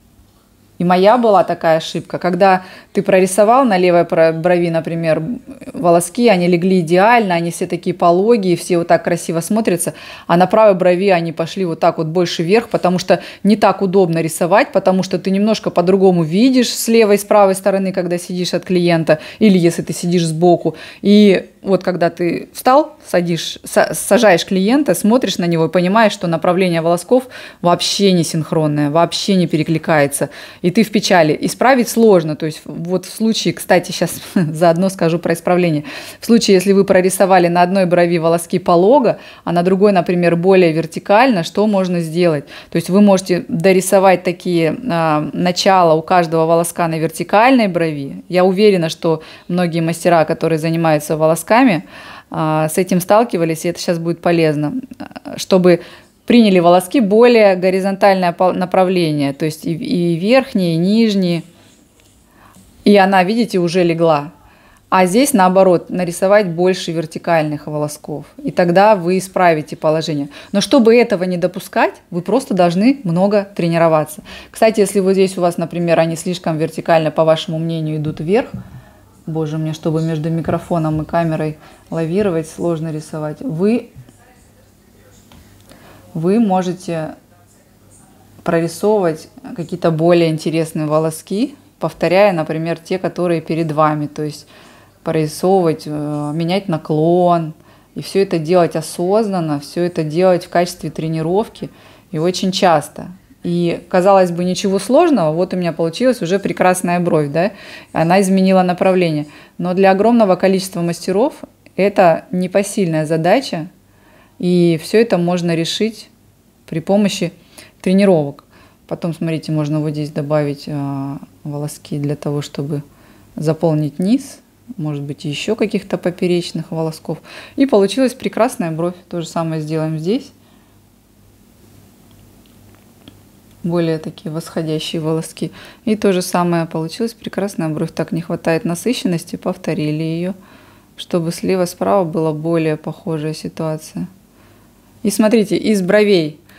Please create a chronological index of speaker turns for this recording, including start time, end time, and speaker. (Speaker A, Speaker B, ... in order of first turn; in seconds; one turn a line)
Speaker A: 0.8-61.4
Speaker A: 62.8-64.3
Speaker A: 64.9-78.5
Speaker A: 79.2-83.9
Speaker A: 86.1-87.1
Speaker A: 88.4-94.5
Speaker A: 95.0-113.7
Speaker A: 114.4-116.1
Speaker A: 116.7-122.8
Speaker A: 123.4-130.3
Speaker A: 133.6-140.3
Speaker A: 141.0-144.1
Speaker A: 145.0-146.4